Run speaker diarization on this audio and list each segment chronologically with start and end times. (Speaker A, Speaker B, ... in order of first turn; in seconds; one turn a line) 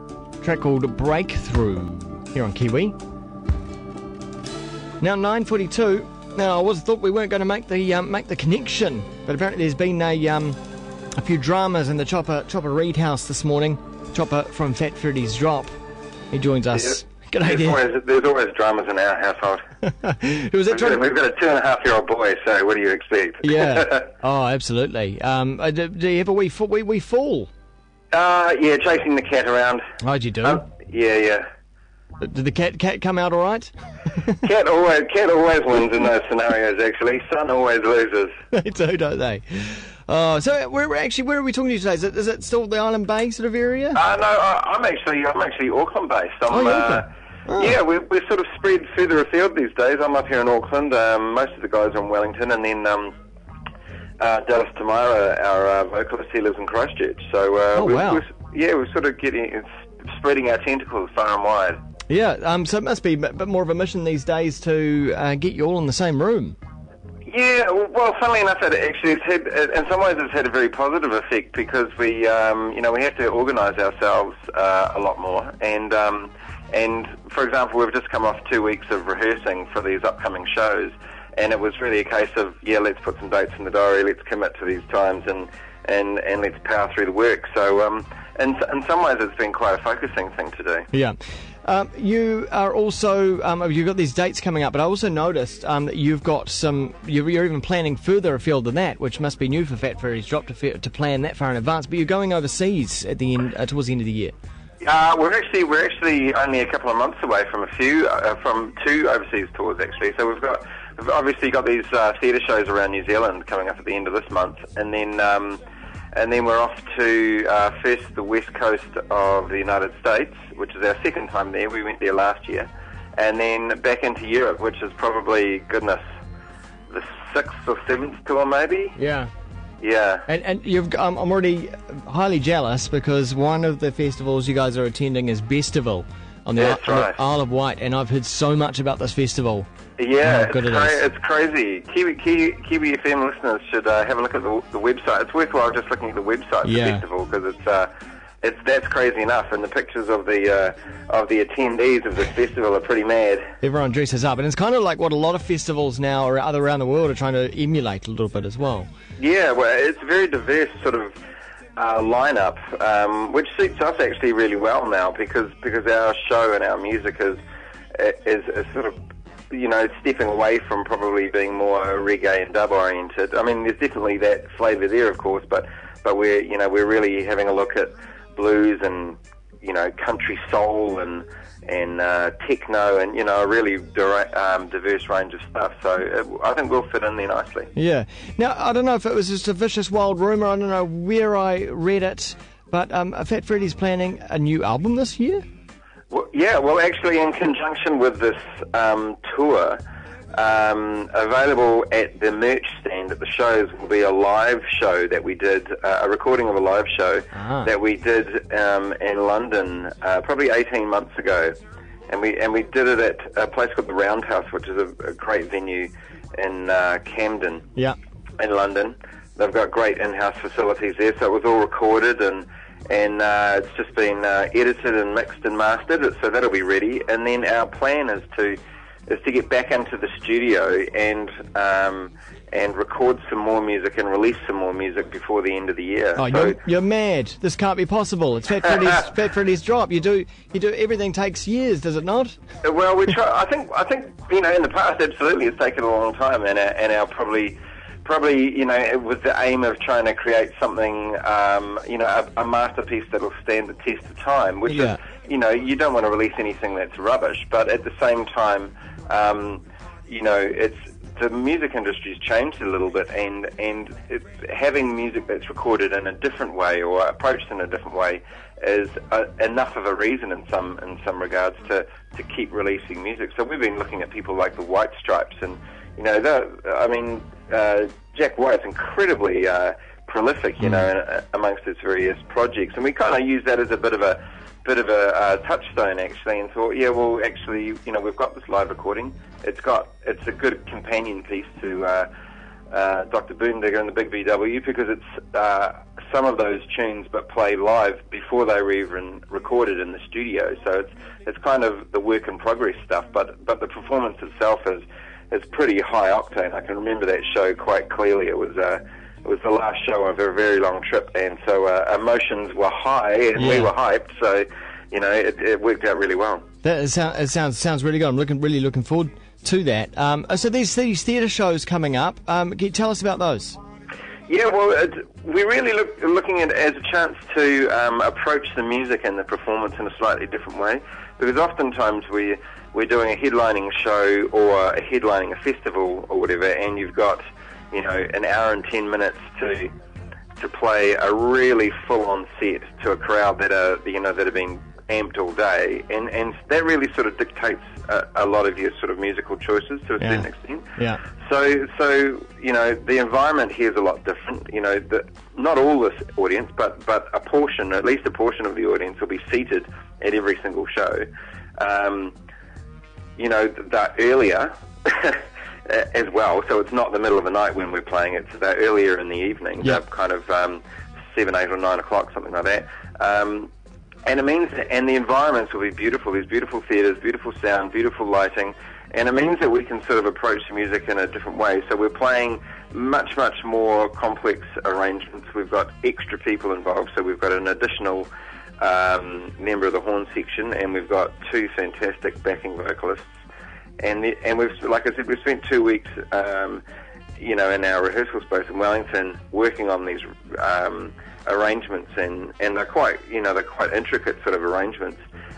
Speaker A: 0.4-2.9
Speaker A: 5.0-10.6
Speaker A: 11.2-15.7
Speaker A: 16.3-17.8
Speaker B: 16.8-19.6
Speaker A: 19.8-21.0
Speaker B: 20.7-24.0
Speaker A: 23.4-27.5
Speaker B: 28.1-29.8
Speaker A: 30.0-30.6
Speaker B: 30.4-31.5
Speaker A: 32.2-34.4
Speaker B: 34.4-38.4
Speaker A: 38.5-44.0
Speaker B: 43.9-47.0
Speaker A: 46.5-47.8
Speaker B: 47.5-53.1
Speaker B: 54.2-61.8
Speaker A: 57.7-58.2
Speaker A: 62.1-66.5
Speaker B: 67.3-90.9
Speaker A: 90.9-104.3
Speaker B: 104.8-115.6
Speaker B: 116.1-126.0
Speaker B: 126.9-129.0
Speaker A: 128.9-129.3
Speaker B: 129.8-130.3
Speaker A: 130.3-139.7
Speaker B: 136.6-137.2
Speaker B: 140.0-153.5
Speaker A: 140.2-141.0
Speaker A: 146.6-147.0
Speaker A: 153.6-158.9
Speaker B: 159.2-161.2
Speaker B: 161.8-167.4
Speaker B: 167.9-169.0
Speaker B: 169.5-187.7
Speaker A: 187.7-195.4
Speaker B: 196.1-199.8
Speaker B: 200.3-211.6
Speaker A: 207.3-207.7
Speaker B: 212.1-217.7
Speaker B: 218.4-236.6
Speaker A: 236.2-242.3
Speaker B: 242.6-292.1
Speaker A: 254.7-255.0
Speaker B: 292.7-316.4
Speaker A: 313.4-313.7
Speaker A: 316.6-323.6
Speaker B: 324.3-339.7
Speaker B: 340.4-350.7
Speaker A: 350.0-350.2
Speaker B: 351.2-361.1
Speaker B: 361.6-362.1
Speaker B: 363.2-373.5
Speaker B: 374.1-388.1
Speaker B: 388.6-393.1
Speaker B: 393.8-396.6
Speaker B: 397.2-405.0